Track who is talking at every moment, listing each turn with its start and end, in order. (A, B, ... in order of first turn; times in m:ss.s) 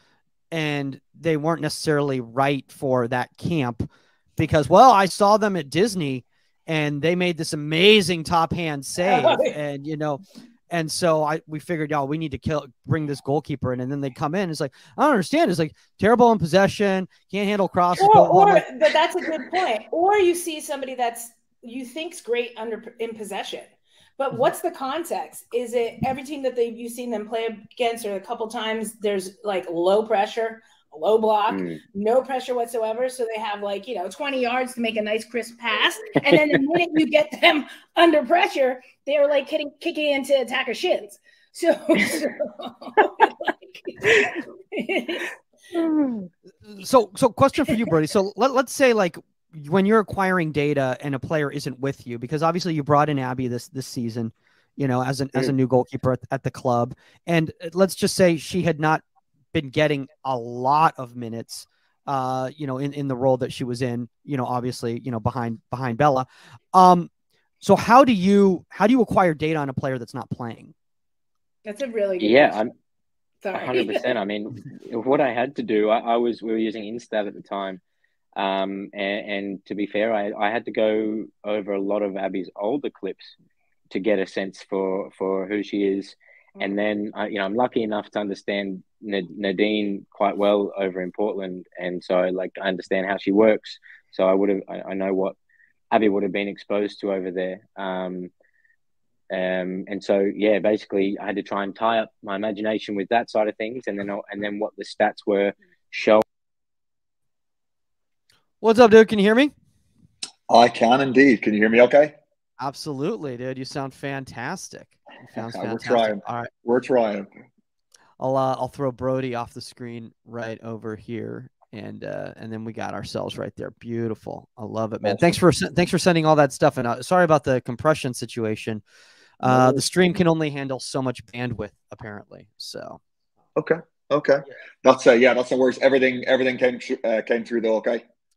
0:00.5-0:18.7 A
0:09.0-0:09.6 B
0:18.0-0:45.3 B
0:31.5-0:31.8 C
0:46.7-1:07.1 A
1:07.6-1:10.7 A
1:11.6-1:12.6 B
1:12.2-1:12.7 C
1:13.4-1:14.1 B
1:13.5-1:17.8 C
1:18.4-1:23.4 C
1:23.9-1:35.4 C
1:35.9-1:38.3 C
1:39.3-1:46.2 C
1:48.6-1:49.5 A
1:50.5-1:52.1 D
1:52.6-1:56.5 A
1:55.4-1:57.3 D
1:58.2-2:08.8 A
2:09.4-2:13.0 A
2:09.5-2:09.9 D
2:13.6-2:18.0 D